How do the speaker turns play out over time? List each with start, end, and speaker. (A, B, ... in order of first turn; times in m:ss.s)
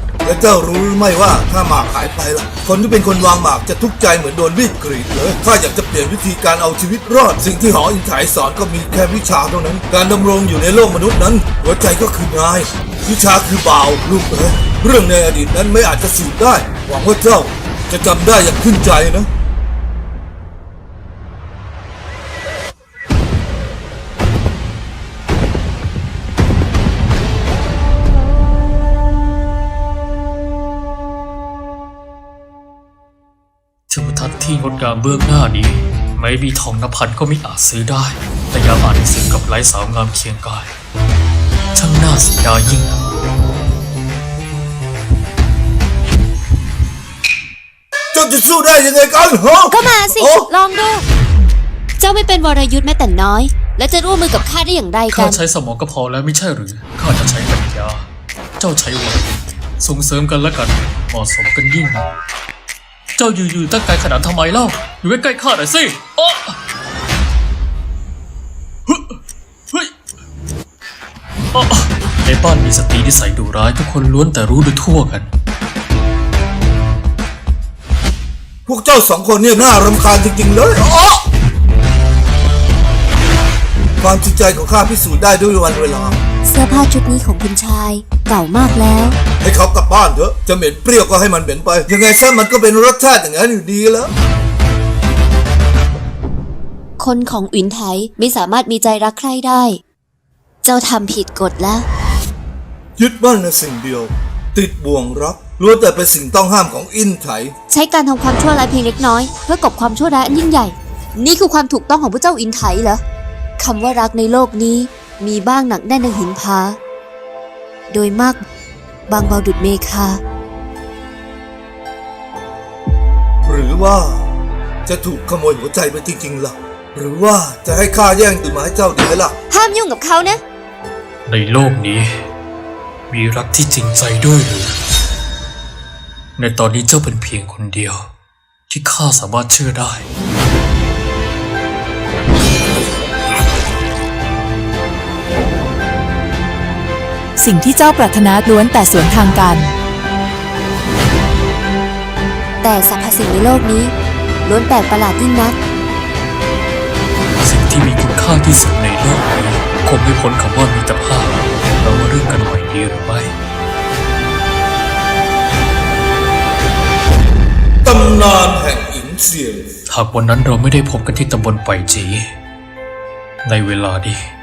0:00.2-0:19.3 A
0:33.9-0:40.7 B
0:41.7-0:42.9 B
0:48.1-0:50.5 A
0:49.7-0:51.0 C
0:52.0-0:55.4 C
0:55.1-0:58.0 B
0:58.6-1:02.0 B
1:03.2-1:06.6 B
1:08.9-1:09.2 B
1:11.5-1:15.3 B
1:18.6-1:21.2 A
1:24.0-1:26.2 A
1:26.4-1:29.2 C
1:29.4-1:34.1 A
1:37.0-1:39.8 C
1:40.6-1:41.8 C
1:43.0-1:47.5 A
1:47.7-1:53.0 C
1:53.6-1:56.8 C
1:57.9-1:58.4 C
1:59.1-2:00.2 C
2:03.4-2:04.2 A
2:04.8-2:09.3 A
2:09.5-2:10.4 C
2:11.2-2:12.2 B
2:13.1-2:14.7 B
2:16.4-2:18.1 B
2:18.7-2:20.0 B
2:27.4-2:29.7 D
2:32.6-2:33.9 C
2:34.4-2:35.6 C
2:37.4-2:43.3 B
2:47.8-2:49.7 A
2:49.9-2:52.2 B
2:53.4-2:54.3 B